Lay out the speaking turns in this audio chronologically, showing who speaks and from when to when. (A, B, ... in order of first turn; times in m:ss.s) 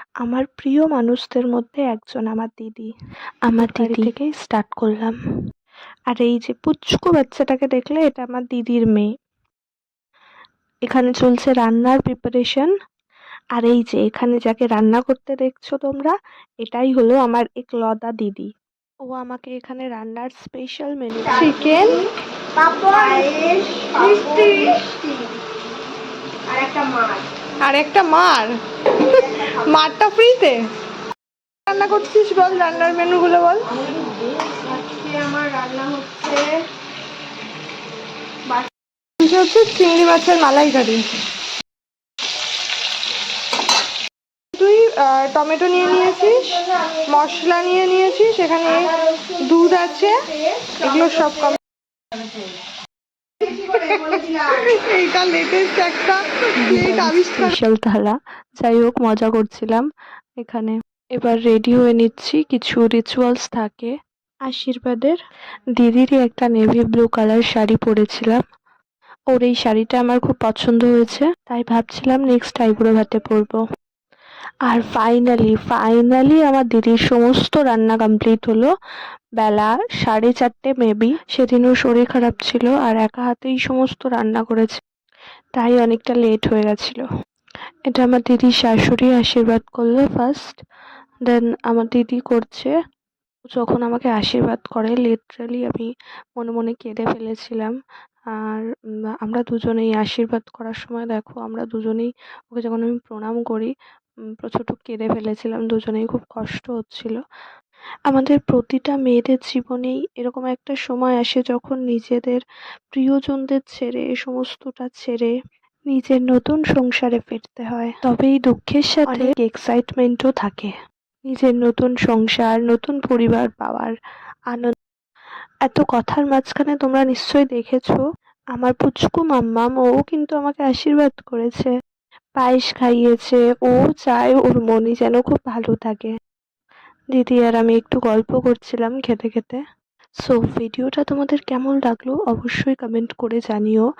0:00.2-0:02.9 A
0:03.5-0:05.2 A
0:06.1-0:09.1 A
0:10.9-0:12.7 A
0:13.6-0:18.5 A
0:19.1-0:21.8 A
0:21.3-0:22.1 B
0:22.6-0:25.4 C
0:22.9-0:23.2 B
0:24.0-0:24.8 B
0:26.5-0:27.3 C
0:27.6-0:30.6 B
0:31.7-0:33.7 B
0:33.9-0:36.6 C
0:39.2-0:41.2 B
0:44.6-0:51.6 B
0:48.9-0:49.3 C
0:53.5-0:57.6 B
0:54.2-0:54.5 C
0:56.6-0:59.9 A
1:00.4-1:03.9 A
1:04.5-1:05.2 A
1:05.8-1:08.4 A
1:09.3-1:13.6 A
1:14.7-1:18.7 A
1:19.4-1:24.8 A
1:25.6-1:27.0 A
1:27.9-1:30.5 A
1:31.3-1:32.7 A
1:33.6-1:37.8 A
1:38.3-1:38.6 A
1:39.2-1:43.7 A
1:44.4-1:47.2 A
1:48.1-1:52.4 A
1:52.9-1:55.3 A
1:55.9-2:00.7 A
2:01.3-2:03.9 A
2:04.5-2:04.8 A
2:05.7-2:08.0 A
2:08.6-2:11.7 A
2:12.4-2:16.1 A
2:17.1-2:19.6 A
2:20.2-2:23.9 A